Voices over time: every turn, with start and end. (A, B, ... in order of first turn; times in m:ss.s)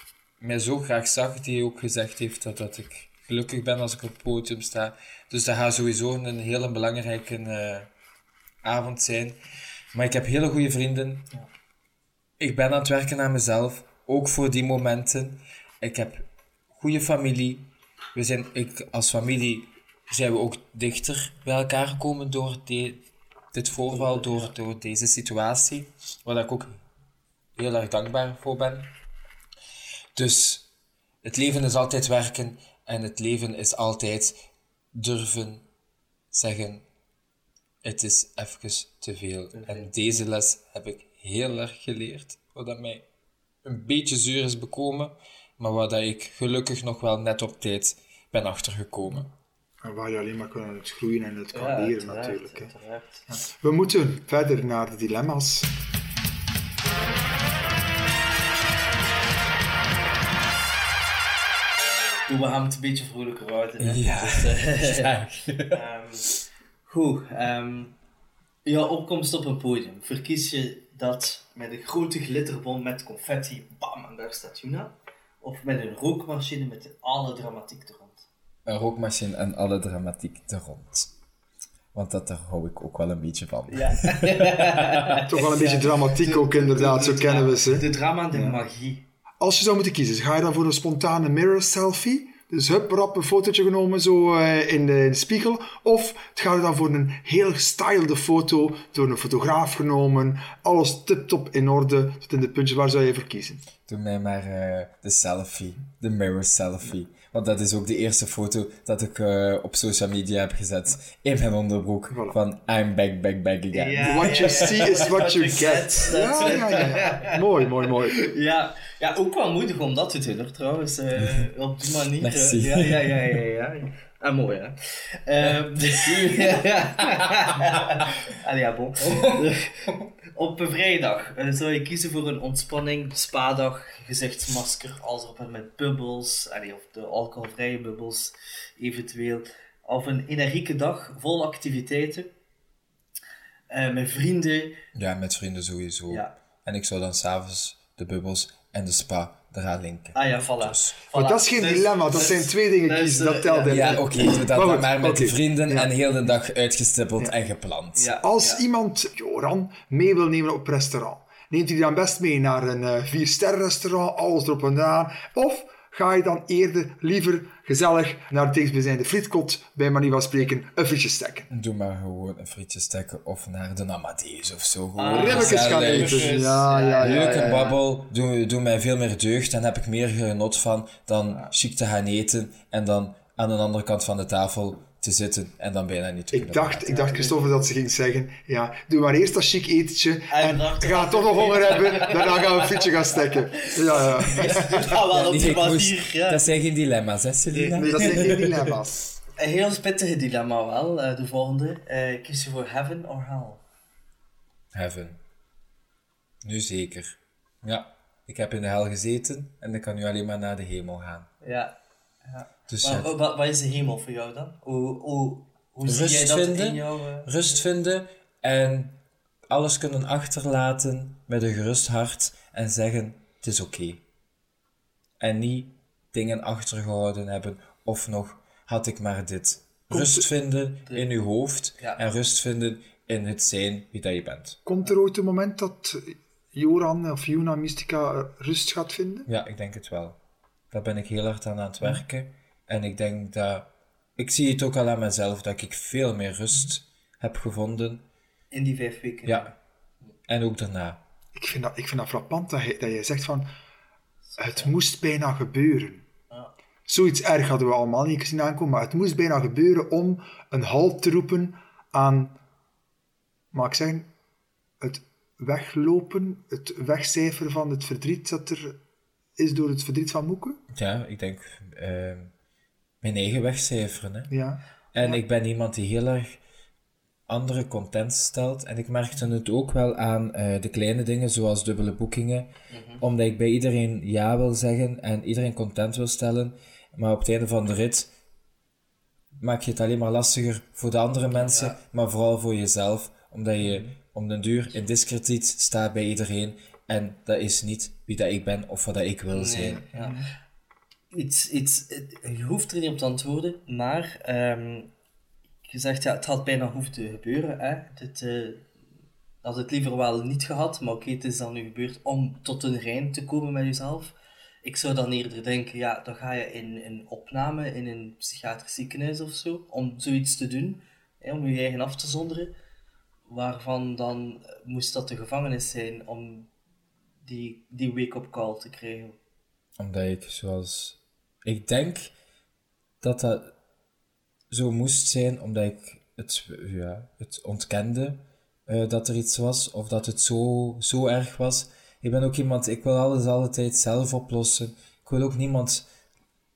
0:00.4-0:07.9 A
0:08.6-0:09.4 A
0:09.9-0:11.2 A
0:12.4-0:23.0 A
0:23.5-0:26.8 A
0:23.9-0:24.5 B
0:27.6-0:28.9 A
0:30.1-0:30.7 A
0:31.2-0:34.4 A
0:34.9-0:35.6 A
0:36.3-0:36.8 A
0:37.8-0:43.0 A
0:39.5-0:39.9 B
0:43.6-0:49.3 A
0:49.8-0:52.7 C
0:51.5-0:53.2 B
0:53.3-0:55.7 C
1:02.3-1:05.1 B
1:03.8-1:05.8 A
1:05.7-1:06.3 B
1:06.8-1:07.9 B
1:08.6-1:18.3 B
1:18.6-1:21.1 A
1:21.9-1:25.2 A
1:23.7-1:29.0 B
1:25.2-1:28.6 C
1:29.4-1:43.6 C
1:43.8-1:55.0 A
1:52.1-1:52.4 C
1:53.7-1:57.4 B
1:54.0-1:58.3 C
1:58.1-2:22.3 B
2:02.2-2:03.2 A
2:05.4-2:07.3 A
2:23.7-2:24.8 B
2:24.9-2:31.0 A
2:26.1-2:26.4 B
2:30.1-2:34.4 B
2:31.1-2:35.9 C
2:33.6-2:38.1 A
2:37.9-2:38.6 B
2:38.2-2:51.5 C
2:51.5-2:56.3 A
2:55.0-2:57.7 B
2:55.1-2:57.7 C
2:57.0-3:06.9 A
3:06.3-3:14.9 C
3:06.8-3:07.6 B
3:10.3-3:16.6 B
3:14.4-3:18.8 A
3:17.6-3:18.2 B
3:17.7-3:19.0 C
3:19.4-3:23.6 B
3:24.7-3:25.2 A
3:26.4-3:31.3 A
3:31.4-3:31.7 B
3:32.2-3:37.3 B
3:32.7-3:33.2 A
3:35.8-3:39.0 A
3:39.5-3:44.0 A
3:45.2-3:54.6 A
3:49.9-3:50.3 C
3:54.6-3:59.3 C
3:59.3-4:00.2 A
4:00.7-4:08.0 A
4:08.5-4:09.5 B
4:09.2-4:09.5 A
4:10.3-4:11.0 A
4:11.3-4:13.5 C
4:14.3-4:14.7 B
4:14.4-4:16.0 C
4:16.9-4:22.3 C
4:23.5-4:24.1 C
4:24.8-4:28.8 C
4:29.4-4:30.6 C
4:30.7-4:32.3 A
4:33.0-4:34.3 A
4:34.3-4:35.2 C
4:34.9-4:36.4 A
4:37.3-4:42.5 A
4:42.7-4:43.0 B
4:43.0-4:48.1 A
4:49.4-4:59.8 A
4:51.4-4:51.8 B
4:59.3-5:00.2 B
4:59.9-5:00.2 C
5:01.1-5:04.9 B
5:05.7-5:08.6 B
5:09.4-5:22.5 B
5:23.3-5:26.5 B
5:27.2-5:29.2 B
5:29.8-5:32.1 A
5:33.0-5:33.5 A
5:34.5-5:45.8 A